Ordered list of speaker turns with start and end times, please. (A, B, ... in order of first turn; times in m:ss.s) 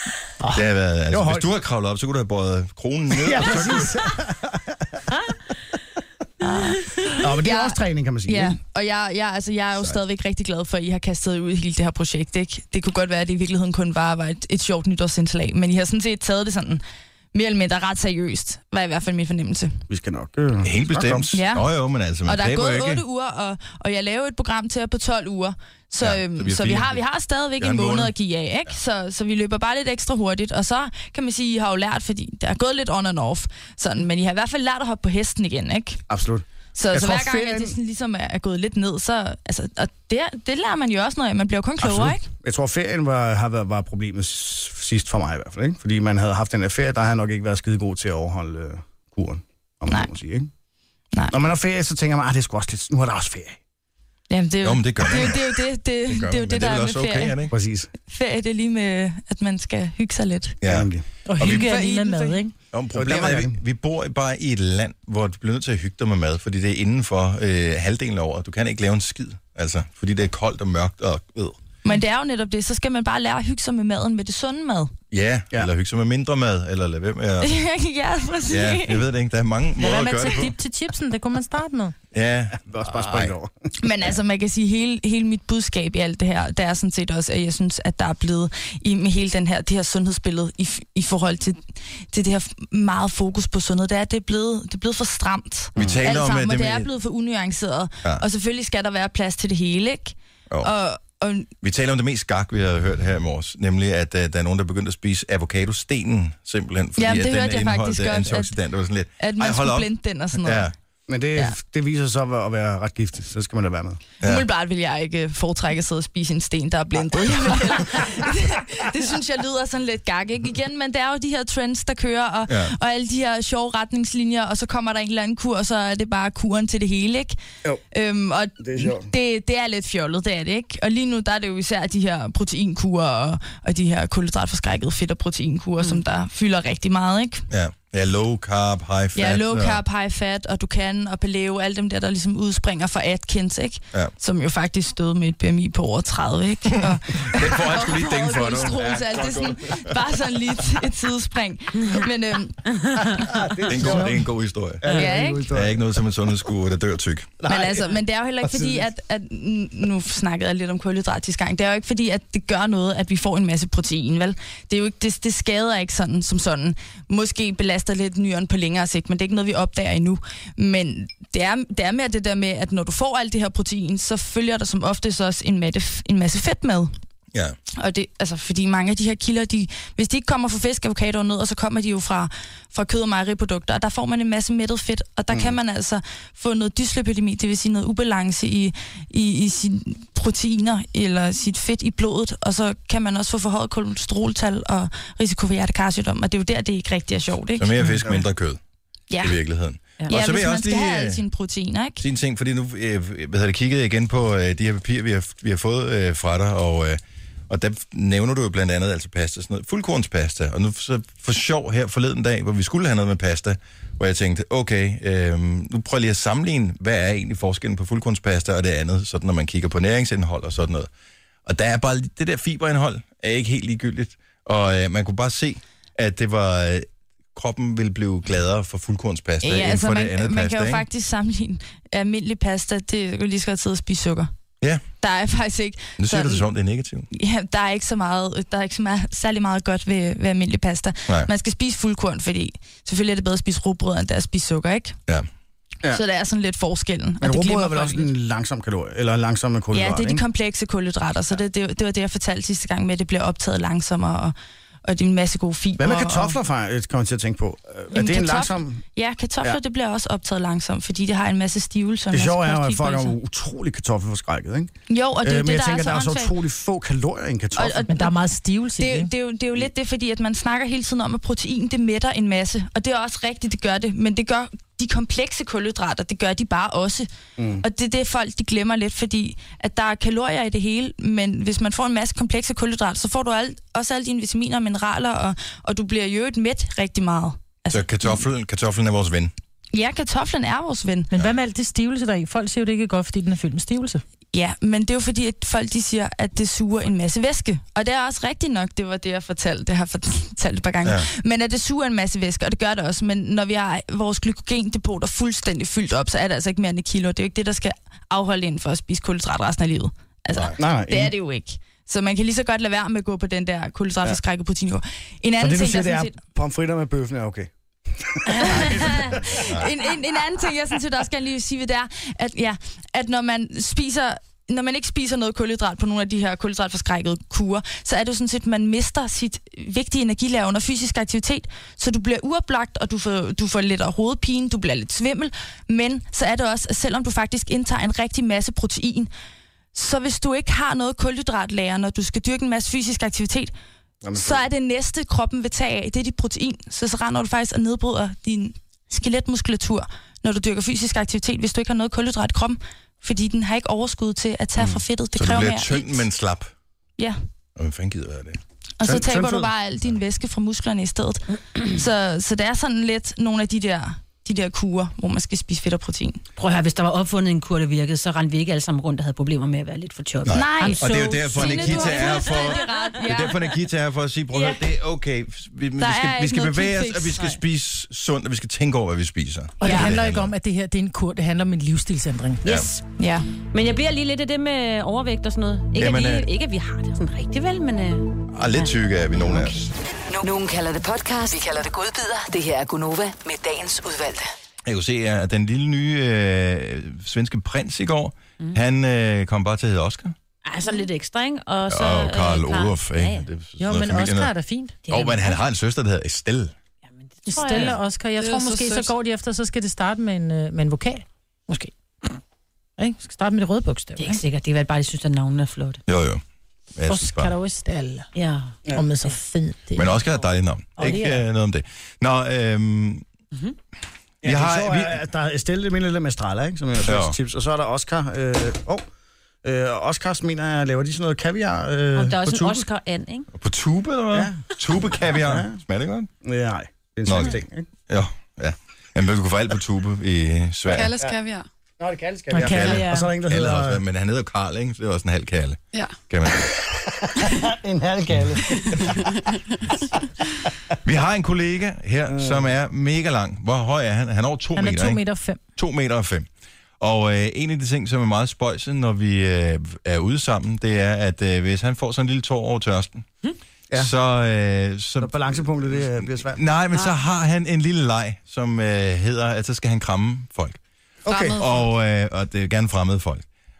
0:00.5-0:04.1 A
0:01.1-0:01.5 B
0:03.1-0:05.1 B
0:06.4-0:16.8 C
0:07.1-0:08.6 B
0:17.3-0:19.8 C
0:19.9-0:21.3 B
0:20.6-0:23.0 A
0:21.3-0:21.7 C
0:22.2-0:36.0 C
0:26.0-0:27.0 A
0:27.6-0:28.1 A
0:36.1-0:37.7 B
0:36.8-0:42.3 C
0:41.8-0:50.5 B
0:51.3-0:53.6 B
0:54.3-0:57.5 C
0:54.6-0:57.5 A
0:57.5-0:57.9 B
0:58.0-1:00.6 C
1:00.6-1:01.8 A
1:00.6-1:01.0 B
1:01.3-1:02.5 D
1:01.4-1:02.4 C
1:02.7-1:11.6 A
1:02.9-1:03.6 B
1:11.8-1:14.9 C
1:15.1-1:17.6 A
1:17.4-1:19.1 C
1:18.5-1:20.5 A
1:19.8-1:22.0 D
1:22.1-1:23.3 A
1:22.6-1:23.5 B
1:23.8-1:41.5 C
1:35.8-1:36.9 A
1:41.6-1:50.7 A
1:47.0-1:48.5 C
1:49.2-1:50.7 C
1:51.1-1:54.0 B
1:54.2-2:07.4 C
2:02.5-2:02.7 A
2:07.9-2:17.4 C
2:08.6-2:09.1 B
2:17.5-2:19.8 A
2:19.2-2:32.7 C
2:27.2-2:30.7 A
2:33.0-2:34.3 B
2:33.7-2:37.4 A
2:34.8-2:36.0 B
2:35.0-2:35.5 C
2:37.4-2:38.8 B
2:37.4-2:56.9 C
2:57.8-3:17.7 C
3:17.6-3:18.6 A
3:19.1-3:19.4 C
3:19.2-3:21.2 A
3:20.1-3:22.0 C
3:22.0-3:40.9 A
3:41.5-3:50.8 A
3:49.4-3:54.3 C
3:55.0-3:56.5 C
3:56.0-3:57.1 A
3:57.1-4:05.0 C
4:05.9-4:08.1 C
4:07.2-4:10.2 B
4:09.7-4:16.4 C
4:15.8-4:18.8 B
4:17.9-4:23.2 C
4:22.1-4:27.9 B
4:24.9-4:26.3 C
4:27.6-4:28.2 C
4:27.9-4:29.1 D
4:28.8-4:37.1 C
4:37.4-4:37.7 B
4:37.6-4:48.2 C
4:47.7-4:49.3 A
4:49.7-4:51.1 C
4:51.1-4:54.0 D
4:54.3-5:16.2 C
5:10.6-5:11.1 B
5:15.4-5:19.5 B
5:18.4-5:39.1 C
5:19.4-5:19.7 A
5:39.7-5:43.5 C
5:44.0-5:44.4 B
5:44.1-5:56.0 C
5:54.6-5:56.5 A
5:57.6-5:58.4 A
5:58.8-6:06.2 C
5:58.8-5:59.5 B
6:06.4-6:12.6 E
6:10.3-6:20.3 A
6:10.3-6:13.5 C
6:10.6-6:11.1 D
6:14.3-6:14.6 C
6:15.8-6:17.4 C
6:19.6-6:22.4 D
6:19.6-6:19.9 C
6:22.5-6:22.8 E
6:23.0-6:23.3 C
6:23.5-6:28.7 E
6:25.8-6:26.3 A
6:28.3-6:29.7 A
6:30.1-6:34.3 F
6:34.7-6:40.2 A
6:40.4-6:43.2 E
6:41.7-6:44.3 A
6:43.6-6:44.8 D
6:44.9-6:45.4 E
6:44.9-6:46.5 A
6:46.8-6:47.8 E
6:47.3-6:51.7 D
6:48.2-6:48.9 G
6:52.8-6:54.2 D
6:54.0-6:55.8 E
6:55.9-6:56.2 A
6:56.8-6:57.3 A
6:56.9-6:58.1 D
6:58.1-6:58.5 E
6:58.7-6:59.9 D
6:59.8-7:03.0 A
7:00.8-7:01.2 D
7:04.2-7:05.0 A
7:04.2-7:08.8 B
7:06.8-7:07.2 A
7:09.4-7:12.7 B
7:12.0-7:13.3 E
7:13.3-7:16.1 A
7:14.1-7:14.4 B
7:15.1-7:15.6 B
7:16.2-7:17.7 B
7:17.1-7:20.9 A
7:20.7-7:21.4 G
7:20.8-7:21.2 B
7:21.8-7:23.8 B
7:22.3-7:23.1 D
7:22.4-7:26.5 A
7:26.5-7:29.1 B
7:30.8-7:35.0 A
7:32.1-7:32.5 B
7:34.6-7:35.4 D
7:35.6-7:36.3 A
7:36.8-7:43.1 A
7:43.8-7:50.6 A
7:45.0-7:46.4 B
7:51.1-7:51.4 B
7:51.1-7:51.6 G
7:51.4-7:53.2 A